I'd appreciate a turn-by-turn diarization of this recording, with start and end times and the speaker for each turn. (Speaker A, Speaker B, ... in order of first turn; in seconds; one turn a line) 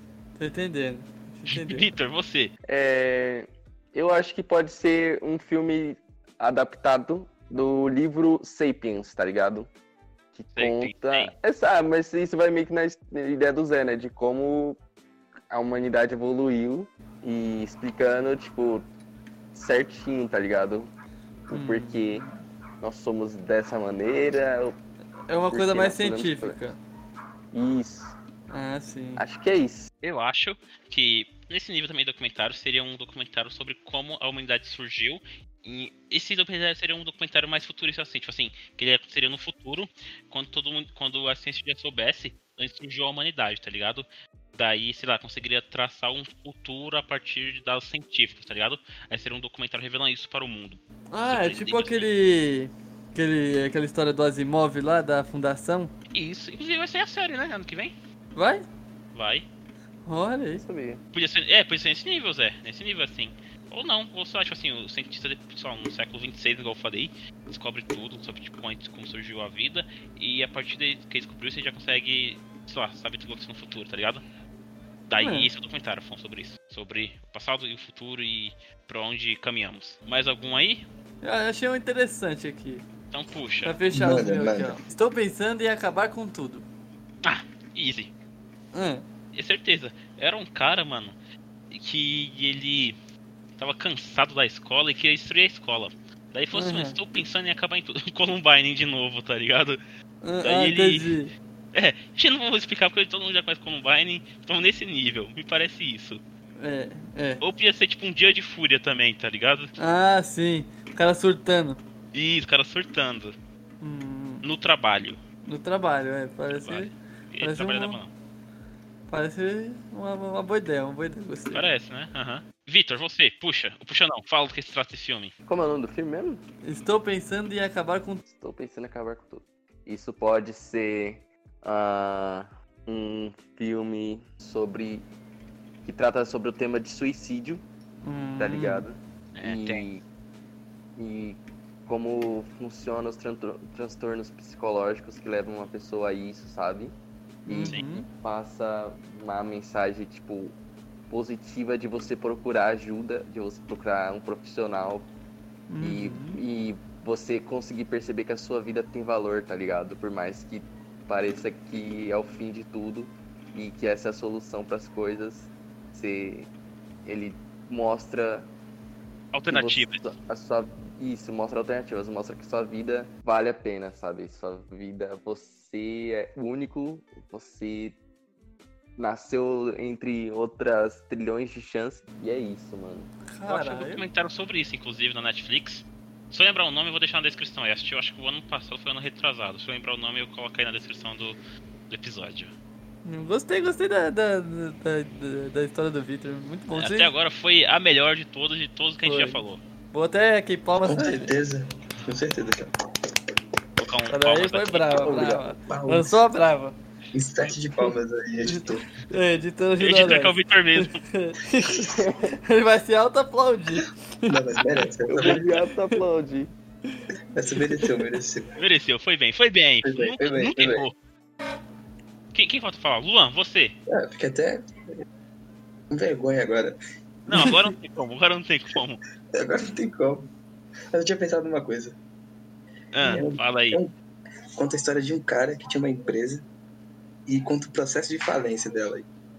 Speaker A: 0.4-1.9
Speaker B: 1.5-2.5
Speaker C: 2.6-9.7
Speaker C: 10.3-14.8
Speaker B: 10.6-11.3
Speaker C: 15.5-18.9
Speaker C: 19.5-20.9
Speaker C: 21.5-22.2
Speaker A: 21.5-22.3
Speaker C: 22.8-24.8
Speaker A: 25.3-26.8
Speaker C: 25.5-26.6
Speaker C: 27.5-28.1
Speaker A: 28.5-29.2
Speaker C: 29.2-29.9
Speaker B: 30.0-44.0
Speaker B: 44.6-52.1
Speaker A: 51.1-55.9
Speaker B: 56.1-57.9
Speaker A: 58.4-58.6
Speaker B: 59.1-59.5
Speaker A: 60.0-60.6
Speaker C: 60.5-61.0
Speaker B: 61.1-74.2
Speaker B: 75.1-80.8
Speaker A: 75.2-75.5
Speaker A: 81.2-82.8
Speaker B: 83.1-83.8
Speaker A: 83.6-86.7
Speaker D: 83.9-84.8
Speaker B: 87.2-88.1
Speaker A: 88.7-89.0
Speaker B: 89.3-91.2
Speaker B: 91.7-93.0
Speaker B: 93.6-99.8
Speaker A: 96.5-97.0
Speaker A: 100.2-101.3
Speaker B: 100.4-101.1
Speaker B: 101.7-106.2
Speaker A: 106.6-107.4
Speaker B: 107.4-109.7
Speaker A: 109.8-111.8
Speaker B: 112.1-113.3
Speaker A: 113.8-114.4
Speaker B: 114.4-115.2
Speaker A: 115.5-118.0
Speaker B: 116.5-118.1
Speaker A: 119.1-121.7
Speaker B: 121.5-125.3
Speaker C: 125.5-126.4
Speaker A: 126.6-128.2
Speaker C: 128.2-135.1
Speaker C: 135.8-137.6
Speaker A: 138.0-138.8
Speaker C: 138.4-140.0
Speaker B: 139.3-139.8
Speaker C: 141.0-146.9
Speaker A: 147.4-148.1
Speaker C: 147.4-150.6
Speaker C: 151.1-155.1
Speaker A: 155.7-156.4
Speaker C: 155.8-166.5
Speaker C: 167.0-168.5
Speaker B: 169.3-170.1
Speaker C: 169.5-178.0
Speaker C: 179.0-183.1
Speaker A: 183.3-184.1
Speaker B: 183.5-191.4
Speaker B: 191.9-192.5
Speaker A: 193.0-197.1
Speaker B: 196.7-199.6
Speaker A: 199.0-199.4
Speaker A: 199.9-201.3
Speaker D: 200.8-202.7
Speaker B: 203.8-205.2
Speaker A: 204.1-206.8
Speaker D: 205.0-206.2
Speaker D: 207.1-208.9
Speaker A: 208.4-214.4
Speaker B: 209.8-211.0
Speaker C: 211.9-212.4
Speaker D: 214.3-215.5
Speaker C: 215.1-216.5
Speaker D: 217.3-218.5
Speaker B: 218.6-220.9
Speaker D: 219.8-220.9
Speaker B: 222.3-223.8
Speaker D: 223.9-224.7
Speaker D: 225.9-226.8
Speaker B: 227.3-229.0
Speaker A: 227.3-227.6
Speaker D: 229.4-230.3
Speaker D: 230.9-231.9
Speaker B: 232.9-233.8
Speaker D: 233.0-233.9
Speaker D: 234.6-236.4
Speaker D: 237.3-239.1